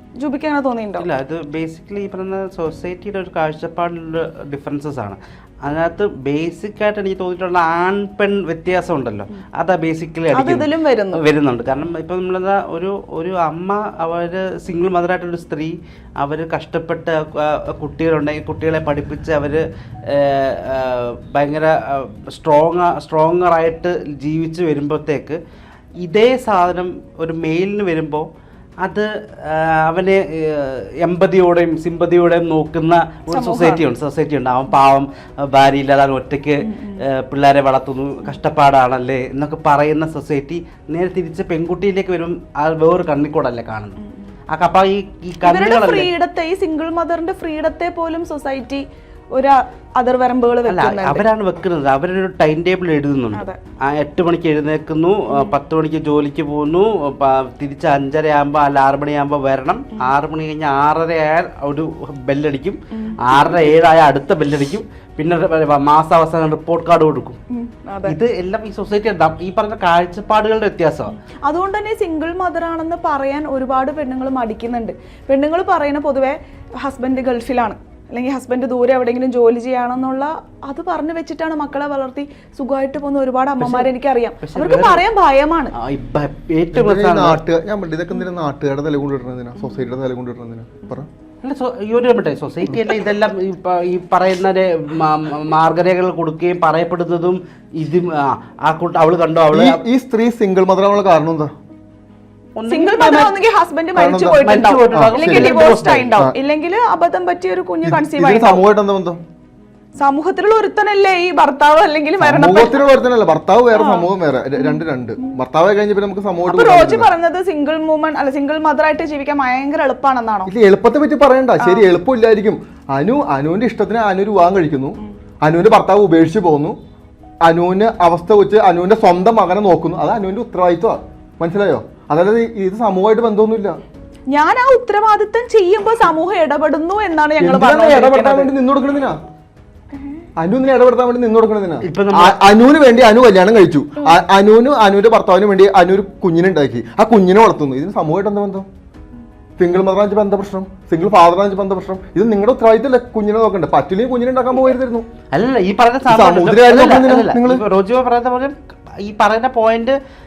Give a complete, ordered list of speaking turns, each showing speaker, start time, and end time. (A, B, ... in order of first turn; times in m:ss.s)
0:00.2-0:01.1 A
0:01.0-0:25.4 B
0:10.3-0:11.2 A
0:26.0-0:28.3 B
0:28.8-0:44.0 B
0:33.3-0:33.8 A
0:36.6-0:37.0 A
0:44.5-0:46.1 B
0:45.4-0:51.2 A
0:50.7-1:07.4 B
1:02.9-1:03.7 A
1:07.5-1:08.2 A
1:08.1-1:11.1 B
1:11.5-1:25.7 A
1:23.6-1:25.0 B
1:25.8-1:27.4 B
1:26.7-1:31.1 C
1:31.4-1:39.8 B
1:39.5-1:41.5 C
1:42.6-1:43.4 B
1:42.7-1:48.6 A
1:44.0-1:45.6 C
1:44.4-1:46.2 B
1:47.8-1:49.2 C
1:50.0-1:52.8 A
1:52.2-1:57.1 C
1:53.8-1:54.1 A
1:56.5-2:00.5 A
2:00.5-2:06.8 C
2:07.5-2:13.8 C
2:14.3-2:18.5 A
2:17.4-2:19.2 C
2:20.4-2:28.7 C
2:21.8-2:22.4 B
2:29.6-2:35.1 C
2:35.3-2:40.0 B
2:36.1-2:37.6 C